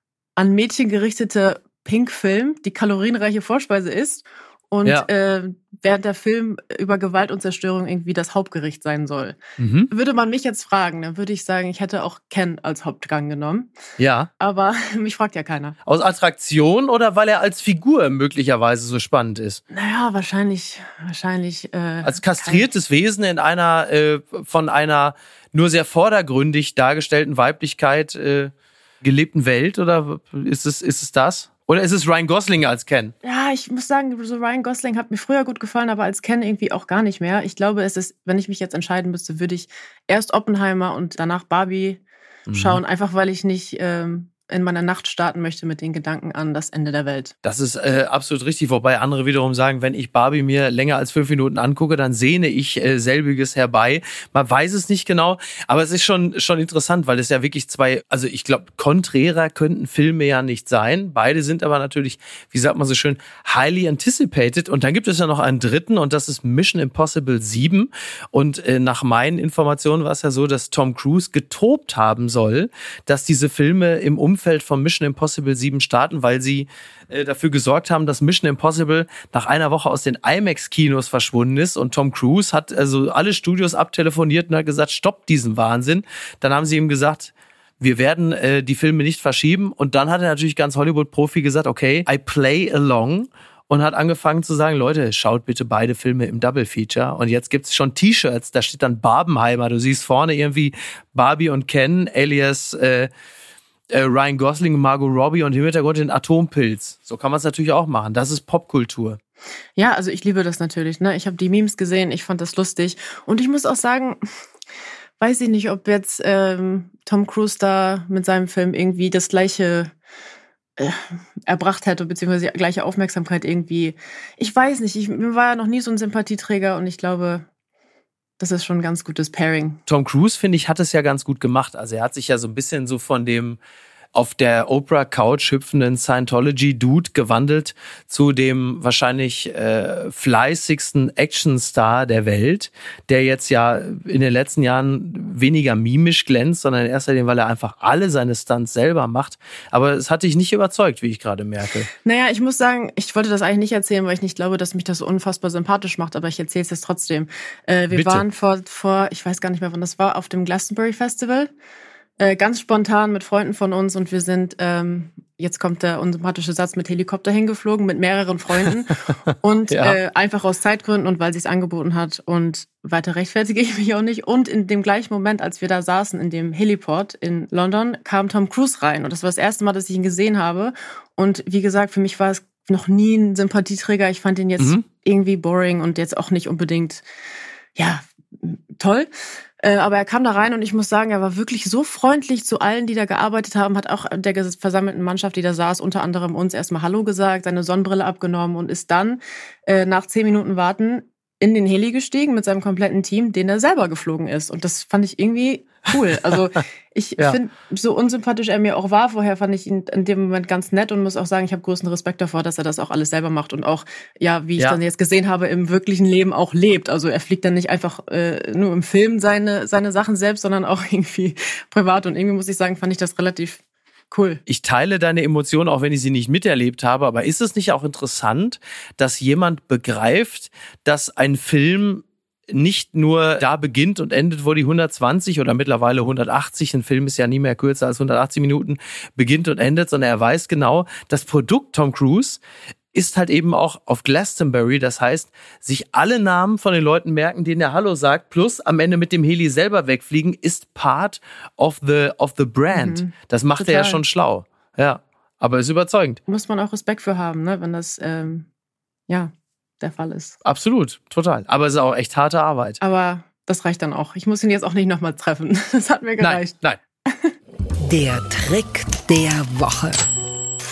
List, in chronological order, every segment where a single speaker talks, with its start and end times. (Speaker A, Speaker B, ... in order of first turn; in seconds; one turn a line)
Speaker A: 0.4-9.4
Speaker B: 9.6-9.9
Speaker A: 9.9-13.7
Speaker B: 14.0-14.3
Speaker A: 14.4-15.8
Speaker B: 15.8-19.6
Speaker A: 19.7-22.7
Speaker B: 22.0-28.5
Speaker B: 29.0-33.1
Speaker A: 33.2-42.0
Speaker B: 42.5-42.8
Speaker A: 42.5-47.3
Speaker B: 47.4-103.1
Speaker B: 103.9-109.2
Speaker A: 109.8-114.2
Speaker A: 115.2-119.9
Speaker A: 120.8-127.4
Speaker A: 128.4-129.8
Speaker B: 129.9-133.6
Speaker B: 134.1-151.9
Speaker A: 152.0-161.5
Speaker B: 157.9-158.2
Speaker A: 162.2-187.0
Speaker B: 169.3-170.0
Speaker B: 184.6-184.8
Speaker A: 187.8-224.4
Speaker B: 224.4-242.4
Speaker B: 242.9-256.2
Speaker A: 252.7-254.0
Speaker A: 256.3-258.5
Speaker A: 259.1-260.4
Speaker B: 260.4-262.8
Speaker A: 262.8-267.3
Speaker B: 266.2-266.8
Speaker C: 267.8-270.0